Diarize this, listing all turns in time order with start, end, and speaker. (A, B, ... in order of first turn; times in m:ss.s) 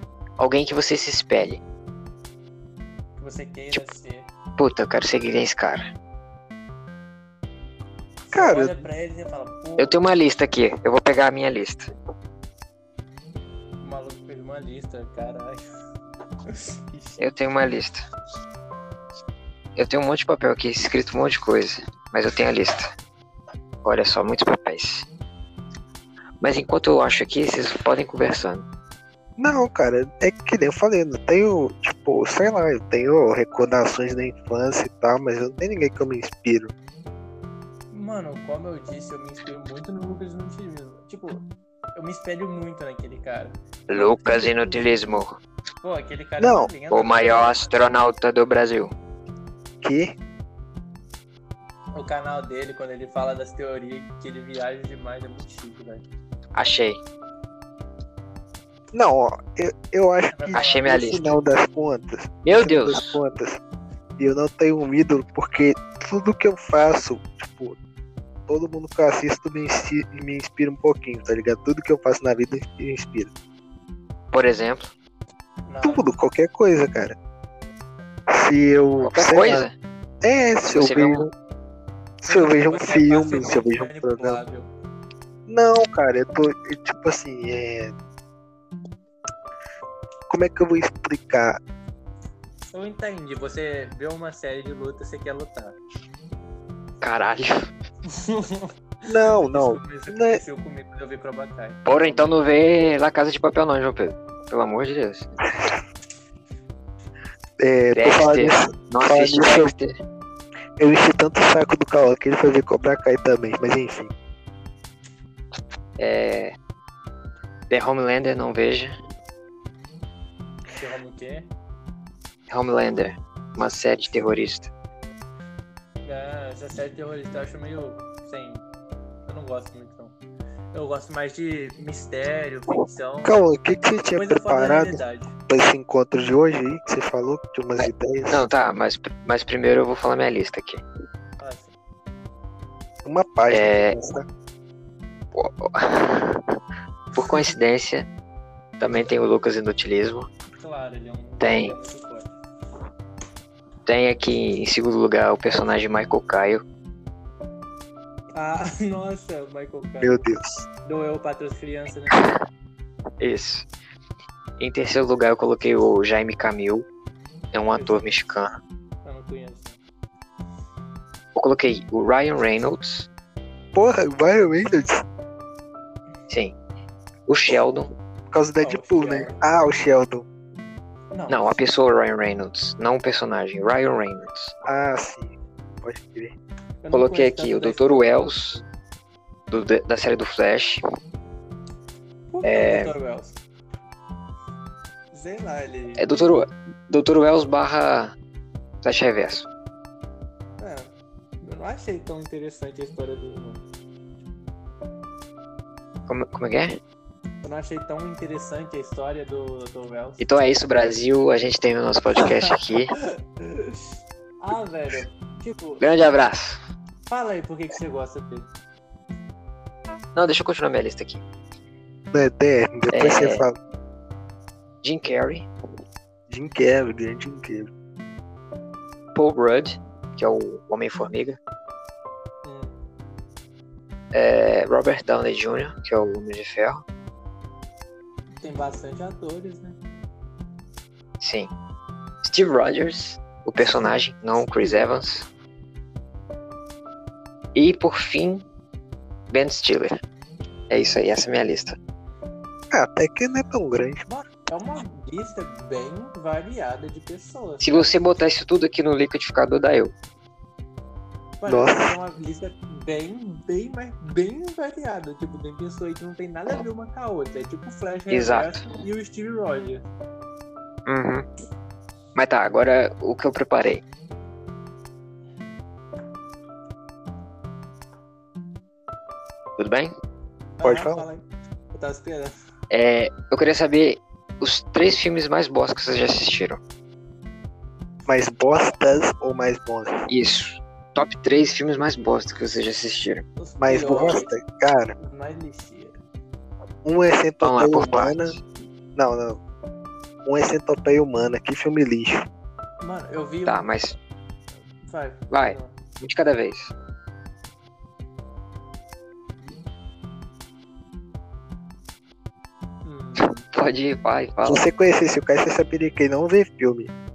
0:00.4-0:01.6 A
0:03.2-0:04.3 B
0:04.6-0:05.9 A
0:08.3-0:10.0 B
0:08.3-0:08.8 C
0:09.8-0:11.9 A
0:13.8-0:15.6 B
0:16.5-0:17.3 B
0:17.2-0:18.0 A
0:19.8-0:22.9 A
0:23.8-0:25.1 A
0:26.4-0:28.6 A
0:29.4-0:36.7 C
0:37.9-0:45.2 B
0:43.9-0:45.4 A
0:45.8-0:48.1 B
0:46.4-0:46.7 C
0:46.9-0:48.9 A
0:49.8-0:50.2 C
0:52.0-0:56.1 B
0:56.6-0:57.0 A
0:58.9-1:03.6 C
1:00.3-1:01.1 B
1:00.5-1:01.4 A
1:02.4-1:03.2 A
1:04.2-1:07.8 C
1:08.5-1:13.3 C
1:14.3-1:14.9 A
1:15.7-1:16.2 B
1:15.8-1:17.2 C
1:18.3-1:19.6 C
1:19.0-1:19.8 A
1:20.2-1:21.3 C
1:20.7-1:21.3 A
1:22.2-1:24.4 C
1:22.3-1:24.7 B
1:25.5-1:28.0 C
1:30.3-1:31.6 C
1:32.7-1:35.8 B
1:37.0-1:37.7 A
1:38.1-1:42.4 B
1:39.1-1:40.4 C
1:41.9-1:45.3 A
1:47.6-1:49.7 C
1:48.0-1:49.9 A
1:50.8-1:54.1 C
1:56.0-1:56.5 A
1:57.7-1:59.0 A
2:00.8-2:01.5 B
2:02.5-2:04.7 A
2:06.0-2:08.6 B
2:09.3-2:10.2 B
2:10.7-2:13.4 B
2:13.2-2:18.4 C
2:14.2-2:15.3 B
2:17.8-2:20.8 A
2:21.4-2:21.7 B
2:23.0-2:24.3 C
2:23.5-2:24.0 A
2:25.3-2:26.6 A
2:27.2-2:28.1 A
2:28.8-2:30.3 A
2:30.6-2:32.3 B
2:31.4-2:31.7 A
2:33.9-2:36.6 A
2:38.4-2:40.2 B
2:40.0-2:40.6 C
2:40.9-2:42.3 B
2:43.2-2:43.6 A
2:44.6-2:46.9 A
2:47.5-2:48.6 A
2:47.7-2:48.1 B
2:49.0-2:49.8 B
2:51.4-2:53.1 A
2:53.8-2:55.0 C
2:56.3-2:56.5 A
2:57.3-2:57.9 A
2:58.3-3:00.2 C
2:58.6-2:59.4 B
3:01.1-3:01.5 B
3:01.3-3:04.5 A
3:04.6-3:06.4 C
3:06.8-3:08.0 B
3:06.9-3:08.6 A
3:09.5-3:10.8 A
3:12.3-3:13.4 B
3:12.4-3:12.9 A
3:15.1-3:16.2 B
3:16.0-3:18.1 A
3:18.8-3:19.5 A
3:20.6-3:23.6 B
3:26.1-3:26.8 A
3:27.4-3:30.2 B
3:30.2-3:33.0 A
3:33.0-3:36.0 B
3:35.8-3:36.6 A
3:37.1-3:38.5 B
3:40.2-3:41.2 A
3:42.1-3:43.6 C
3:42.9-3:43.4 A
3:44.8-3:45.5 A
3:46.3-3:47.7 C
3:49.2-3:51.4 A
3:52.4-3:52.8 B
3:54.1-3:56.8 A
3:58.4-3:59.8 B
4:01.2-4:01.5 A
4:02.2-4:05.3 A
4:04.5-4:05.0 B
4:07.6-4:08.4 A
4:09.3-4:10.0 A
4:10.7-4:11.8 A
4:12.7-4:14.0 C
4:14.1-4:17.9 B
4:17.6-4:19.9 A
4:21.4-4:29.9 B
4:21.5-4:22.0 C
4:28.1-4:28.7 A
4:30.9-4:31.3 A
4:32.2-4:33.8 A
4:39.6-4:39.9 A
4:40.6-4:42.3 B
4:40.6-4:41.1 C
4:42.7-4:46.6 A
4:48.1-4:50.1 C
4:50.1-4:53.2 A
4:53.4-4:54.3 B
4:53.6-4:54.9 C
4:55.0-4:56.0 B
4:56.8-4:58.4 C
4:57.4-4:58.4 A
4:59.0-4:59.4 C
5:00.2-5:02.2 C
5:02.8-5:03.7 B
5:03.5-5:04.0 A
5:04.8-5:05.8 B
5:05.3-5:06.7 A
5:12.8-5:13.4 B
5:13.5-5:14.6 A
5:14.4-5:16.9 C